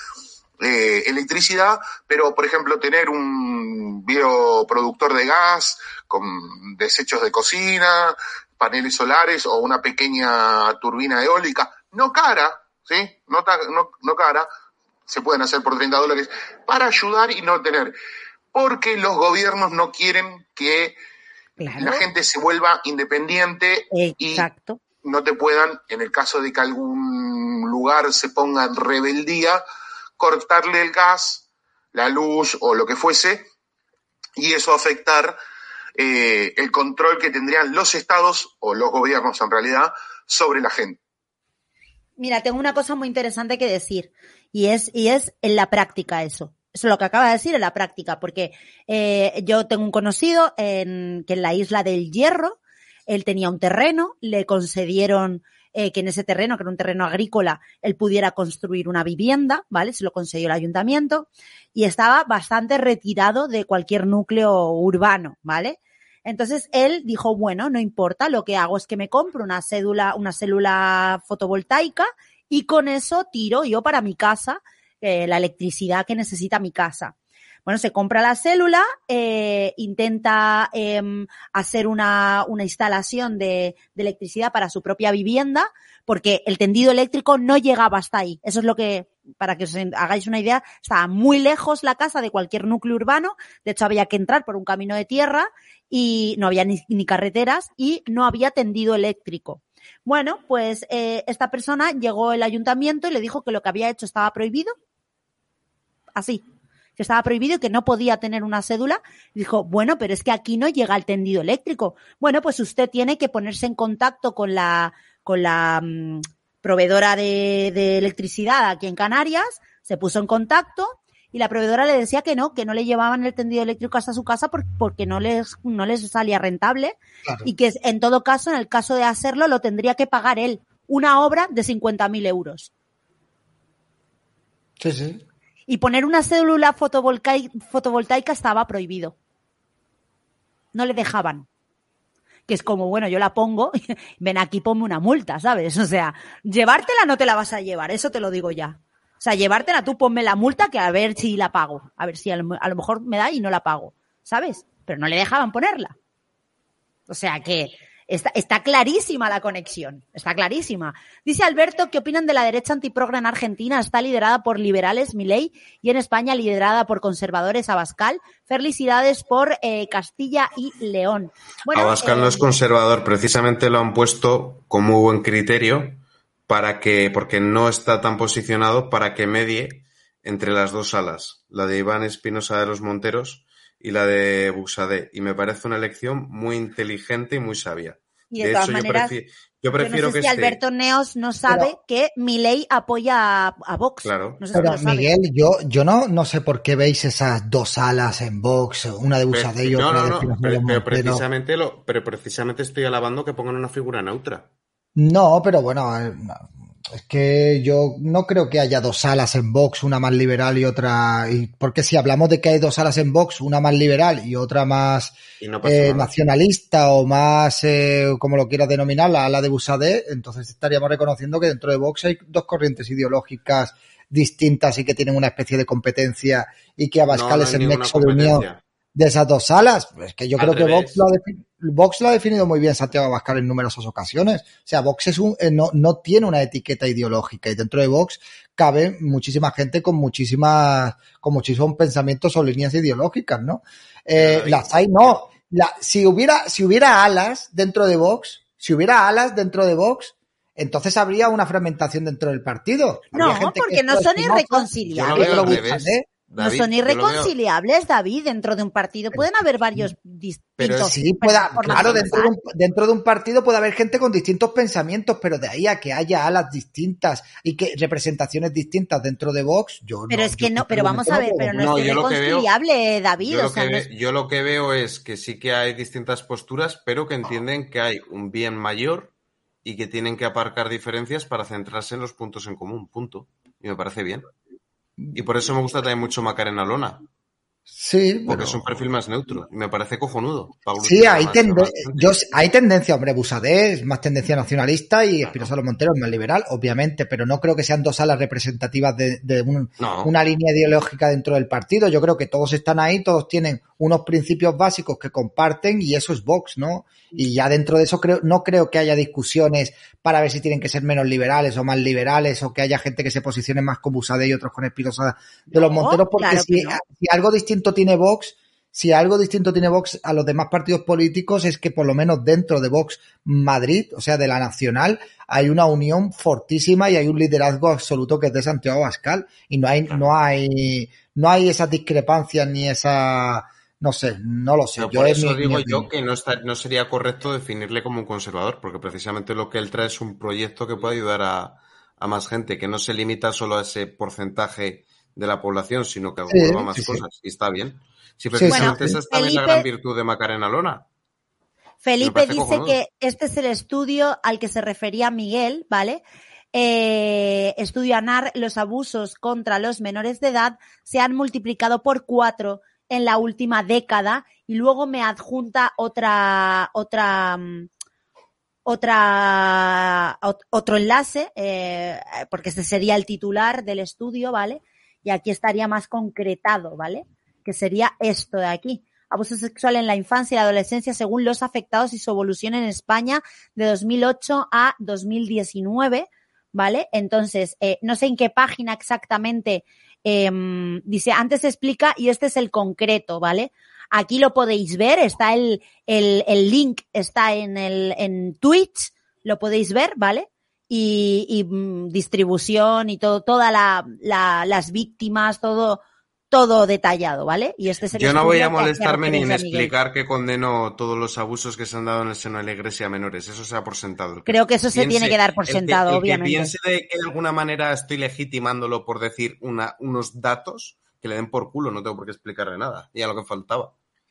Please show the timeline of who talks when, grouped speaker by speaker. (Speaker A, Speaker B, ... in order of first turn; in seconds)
Speaker A: 0.6-14.5, 15.1-17.9, 18.5-21.0, 21.8-24.5, 25.0-29.6, 30.2-33.5, 34.4-35.4, 36.0-41.0
Speaker B: 21.6-22.1, 23.9-24.8, 42.2-77.2, 77.7-104.7, 106.2-106.4, 107.0-132.7, 135.7-139.2, 140.7-141.5, 142.5-155.9, 157.1-172.6, 188.3-189.2, 189.8-195.1, 253.1-255.6, 256.4-262.3, 270.1-273.9, 315.5-316.8, 348.5-349.7, 351.8-356.0, 356.5-367.7, 368.7-409.7, 414.3-416.5
Speaker C: 127.2-127.5, 134.8-135.2, 194.6-201.2, 205.0-256.1, 259.1-259.9, 260.6-271.7, 287.7-288.8, 290.8-335.9, 346.3-347.0, 348.3-349.0
Speaker D: 171.7-190.6, 194.0-194.4, 199.3-204.5, 215.4-216.1, 227.1-228.6, 230.4-231.0, 244.2-245.2, 255.0-257.3, 260.6-260.9, 261.6-262.1, 271.6-272.5, 273.2-279.1, 279.6-284.3, 285.1-287.0, 288.3-292.1, 295.2-295.5, 299.8-300.1, 329.9-330.1, 334.8-350.8, 352.0-352.8, 407.9-423.7